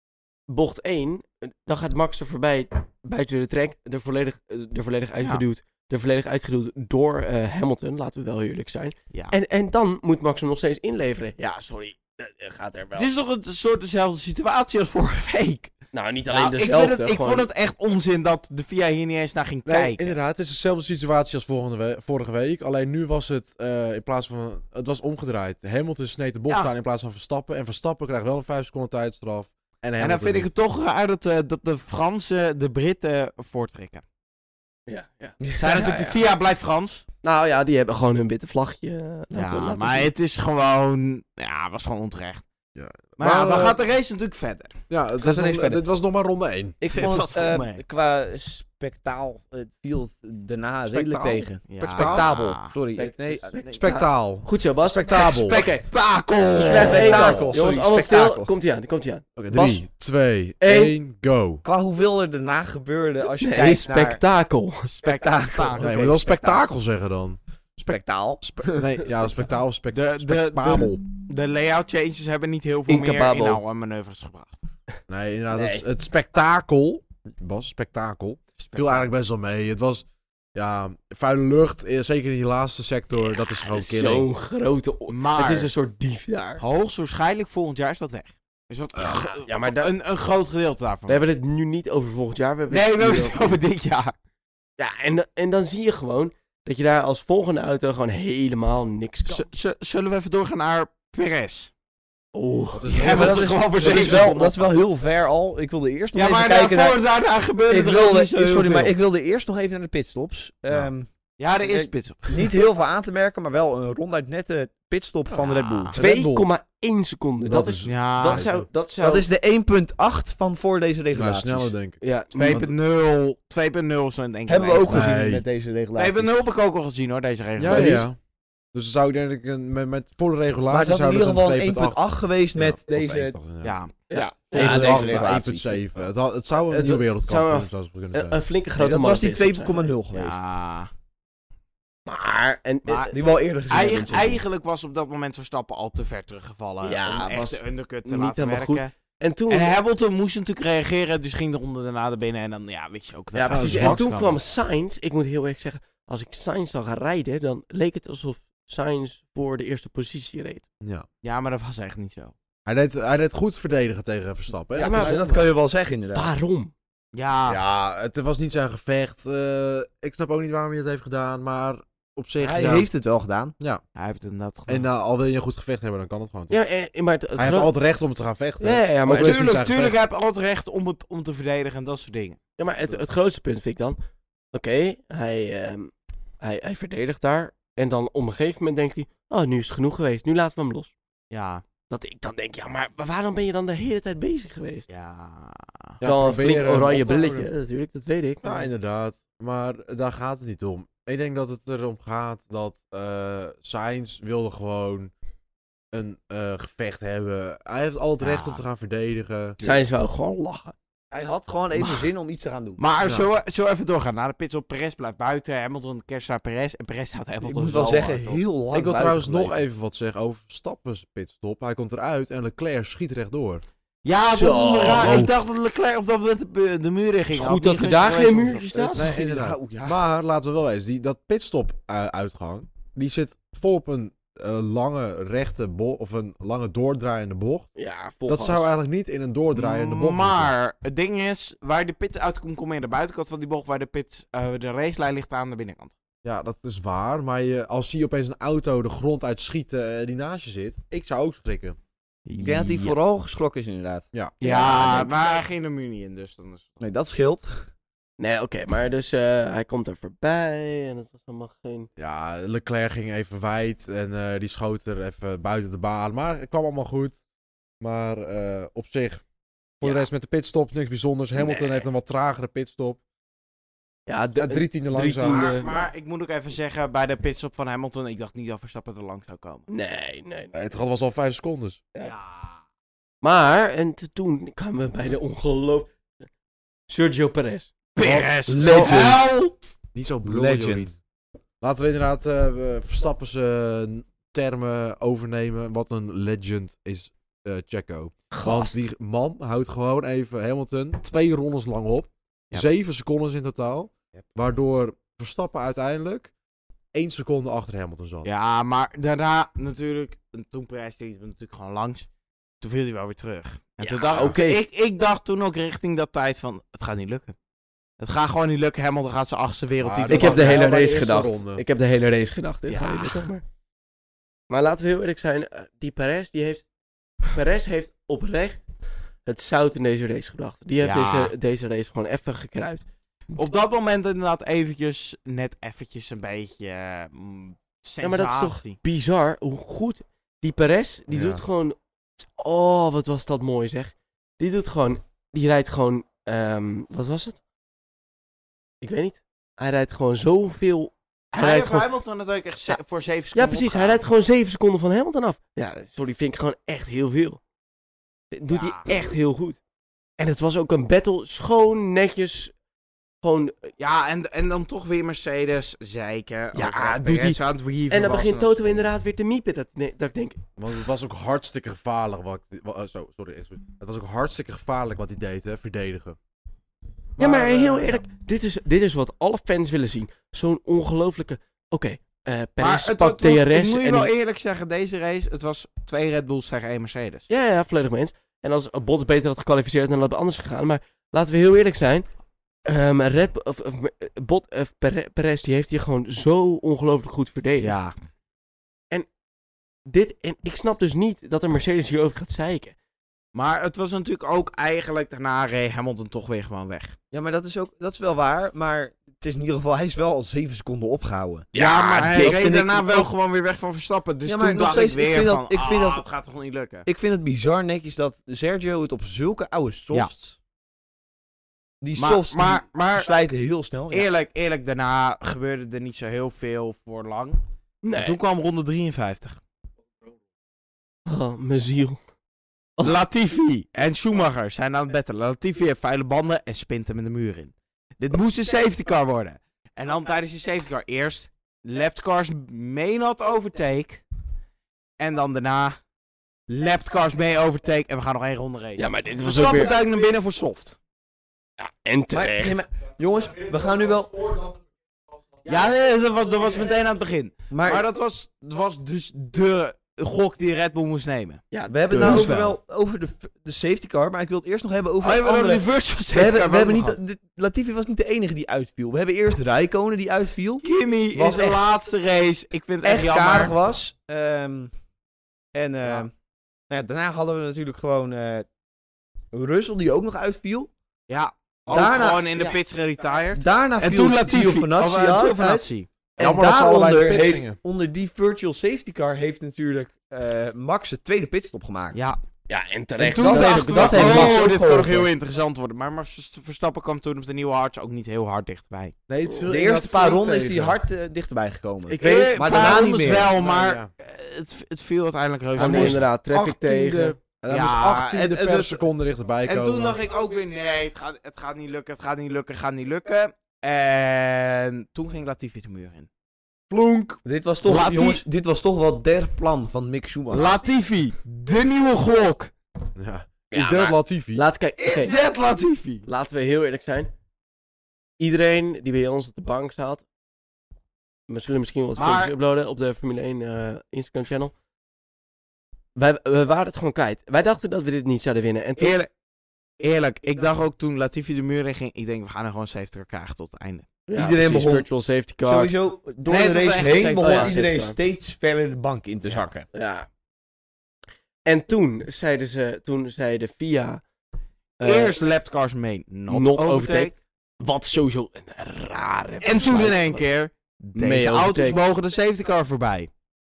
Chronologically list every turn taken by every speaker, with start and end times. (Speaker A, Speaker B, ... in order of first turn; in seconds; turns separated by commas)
Speaker A: 0.5-13.1, Speaker B: 12.9-15.7, Speaker A: 15.9-17.5, Speaker B: 16.3-20.2, Speaker C: 19.6-30.5, Speaker B: 30.0-34.0, Speaker A: 34.9-36.2, Speaker D: 35.4-35.8, Speaker B: 35.6-37.0, Speaker A: 37.2-40.1, Speaker B: 39.3-42.4, Speaker C: 42.7-43.8, Speaker B: 43.2-44.7, Speaker C: 44.9-46.8, Speaker D: 45.2-45.8, Speaker D: 46.8-53.6, Speaker B: 46.9-47.8, Speaker C: 50.9-52.3, Speaker B: 51.7-52.7, Speaker A: 53.0-55.8, Speaker C: 53.6-55.7, Speaker B: 55.1-57.5, Speaker A: 56.5-59.8, Speaker D: 56.6-58.5, Speaker C: 59.4-61.6, Speaker A: 60.6-60.9, Speaker D: 61.6-64.2, Speaker A: 63.4-65.2, Speaker D: 65.0-66.6, Speaker B: 65.4-66.0, Speaker C: 65.8-71.0, Speaker D: 67.9-69.0, Speaker B: 69.9-74.6, Speaker A: 72.9-73.6, Speaker C: 75.1-84.3, Speaker A: 75.5-75.8, Speaker B: 78.6-79.1, Speaker A: 83.2-86.6, Speaker B: 85.1-85.7, Speaker B: 86.6-91.2, Speaker A: 89.0-89.9, Speaker A: 91.1-93.5, Speaker B: 92.7-94.1, Speaker A: 94.8-99.5, Speaker B: 99.2-101.7, Speaker A: 102.3-104.8, Speaker C: 102.7-103.5, Speaker B: 102.9-104.4, Speaker D: 103.0-107.0, Speaker B: 106.1-108.9, Speaker D: 107.7-111.1, Speaker B: 111.4-112.5, Speaker D: 111.6-116.0, Speaker B: 115.4-116.0, Speaker C: 115.9-116.5, Speaker A: 115.9-119.2, Speaker C: 117.4-118.7, Speaker B: 117.8-118.5, Speaker D: 119.0-121.7, Speaker C: 121.1-122.7, Speaker A: 122.0-122.7, Speaker B: 122.3-125.1, Speaker D: 124.5-126.3, Speaker C: 124.9-125.4, Speaker B: 126.0-128.1, Speaker C: 127.5-128.2, Speaker D: 127.7-128.1, Speaker C: 128.7-132.0, Speaker D: 130.7-133.4, Speaker C: 132.6-133.8, Speaker B: 133.6-133.9, Speaker A: 134.1-135.3, Speaker D: 134.5-135.9, Speaker C: 134.5-138.4, Speaker A: 136.7-139.9, Speaker D: 138.8-140.4, Speaker B: 140.1-140.9, Speaker A: 142.1-143.1, Speaker B: 142.8-143.2, Speaker D: 143.1-144.4, Speaker B: 143.7-148.9, Speaker A: 146.8-149.8, Speaker B: 149.5-154.3, Speaker A: 153.3-160.6, Speaker C: 153.5-154.0, Speaker C: 160.8-161.1, Speaker B: 161.2-162.3, Speaker C: 162.7-165.2, Speaker D: 164.7-166.3, Speaker A: 164.8-165.5, Speaker A: 166.1-166.7, Speaker B: 167.1-167.6, Speaker C: 167.4-172.9, Speaker D: 172.4-173.5, Speaker B: 173.9-174.9, Speaker C: 174.7-176.6, Speaker A: 176.5-177.7, Speaker C: 177.3-179.9, Speaker A: 178.6-179.4, Speaker B: 179.1-182.4, Speaker A: 182.6-184.0, Speaker A: 184.5-190.9, Speaker B: 191.3-191.6, Speaker A: 191.9-194.9, Speaker B: 194.9-196.0, Speaker C: 196.0-197.5, Speaker A: 196.0-198.7, Speaker C: 198.4-205.1, Speaker C: 205.9-209.6, Speaker B: 208.2-208.6, Speaker A: 209.6-210.7, Speaker D: 211.1-212.8, Speaker B: 211.8-212.0, Speaker B: 212.8-218.4, Speaker C: 213.0-213.3, Speaker D: 217.4-219.6, Speaker C: 218.7-223.6, Speaker B: 224.0-228.7, Speaker A: 224.3-225.3, Speaker C: 224.8-225.3, Speaker A: 227.3-229.1, Speaker D: 228.7-230.0, Speaker C: 228.9-237.7, Speaker A: 237.8-238.7, Speaker C: 238.2-240.5, Speaker B: 239.5-245.9, Speaker C: 246.2-251.8, Speaker B: 252.2-252.9, Speaker D: 252.4-254.1, Speaker C: 254.1-254.9, Speaker A: 254.4-255.3, Speaker B: 254.4-256.7, Speaker D: 256.8-257.6, Speaker A: 258.2-261.9, Speaker C: 262.0-267.2, Speaker C: 267.8-269.2, Speaker C: 269.8-273.0, Speaker A: 269.8-270.1, Speaker A: 271.3-271.9, Speaker A: 274.1-275.9, Speaker C: 274.4-275.5, Speaker B: 275.2-279.6, Speaker A: 279.7-280.6, Speaker C: 280.5-281.8, Speaker B: 282.0-282.6, Speaker A: 283.2-285.9, Speaker A: 286.9-287.9, Speaker B: 287.9-289.7, Speaker C: 288.0-289.2, Speaker D: 288.5-289.2, Speaker C: 289.9-290.9, Speaker D: 290.2-290.9, Speaker C: 291.6-306.3, Speaker A: 298.3-298.8, Speaker C: 306.9-308.3, Speaker B: 308.2-312.1, Speaker B: 312.6-317.3, Speaker A: 313.8-314.6, Speaker B: 318.0-320.7, Speaker C: 319.8-321.6, Speaker A: 320.1-323.4, Speaker B: 322.7-323.2, Speaker A: 324.5-326.6, Speaker A: 327.3-328.6, Speaker A: 329.2-332.8, Speaker B: 330.8-331.3, Speaker B: 333.3-338.8, Speaker A: 338.0-347.4, Speaker C: 341.1-341.4, Speaker A: 348.8-351.9, Speaker B: 351.3-354.0, Speaker A: 353.3-357.4, Speaker A: 358.3-359.6, Speaker B: 358.5-359.1, Speaker A: 360.2-362.5, Speaker A: 363.2-363.7, Speaker B: 363.8-368.9, Speaker A: 366.5-370.5, Speaker C: 370.6-376.2, Speaker A: 377.2-384.1, Speaker B: 377.2-378.0, Speaker B: 382.6-387.3, Speaker A: 387.3-392.1, Speaker A: 392.6-397.8, Speaker B: 397.6-397.9, Speaker A: 399.9-402.7, Speaker B: 403.3-406.9, Speaker D: 407.1-411.5, Speaker A: 411.5-412.5, Speaker B: 411.5-416.9, Speaker D: 412.1-413.1, Speaker D: 414.2-416.1, Speaker D: 416.9-420.4, Speaker D: 421.8-424.1, Speaker B: 422.0-423.2, Speaker B: 423.9-427.4, Speaker A: 427.8-428.2, Speaker B: 427.9-429.4, Speaker A: 431.1-432.0, Speaker B: 432.8-444.0, Speaker B: 445.0-445.8, Speaker B: 446.5-450.8, Speaker A: 448.8-449.7, Speaker A: 451.6-452.6, Speaker D: 452.1-454.4, Speaker B: 455.4-462.5, Speaker D: 457.5-457.8, Speaker A: 461.5-462.3, Speaker D: 461.7-471.6, Speaker B: 465.0-467.0, Speaker B: 470.6-473.5, Speaker D: 472.8-474.7, Speaker D: 475.5-476.1, Speaker D: 476.7-478.5, Speaker D: 479.3-480.7, Speaker B: 481.1-485.9, Speaker D: 481.7-482.6, Speaker D: 483.3-492.0, Speaker C: 486.2-487.6, Speaker B: 491.9-492.2, Speaker A: 492.5-494.4, Speaker D: 493.0-495.1, Speaker B: 493.0-498.9, Speaker C: 499.1-500.8, Speaker D: 499.5-503.3, Speaker A: 501.9-502.9, Speaker B: 502.0-506.0, Speaker C: 503.4-503.9, Speaker A: 505.6-507.2, Speaker C: 505.6-510.0, Speaker B: 507.5-508.8, Speaker B: 509.4-516.1, Speaker C: 516.7-517.2, Speaker D: 517.2-520.5, Speaker B: 517.6-518.2, Speaker B: 520.3-522.5, Speaker C: 523.0-524.4, Speaker A: 523.5-525.2, Speaker B: 524.8-526.0, Speaker A: 526.0-527.1, Speaker A: 528.2-530.0, Speaker A: 531.3-534.5, Speaker B: 532.0-532.3, Speaker A: 535.9-539.0, Speaker B: 538.8-539.1, Speaker B: 539.8-543.9, Speaker A: 544.1-545.7, Speaker D: 544.1-544.9, Speaker D: 545.4-549.6, Speaker B: 546.3-547.6, Speaker A: 547.1-548.0, Speaker A: 549.7-550.1, Speaker A: 551.4-554.0, Speaker A: 554.8-555.1, Speaker B: 554.8-557.1, Speaker A: 556.3-560.2, Speaker B: 559.4-563.1, Speaker A: 561.0-561.8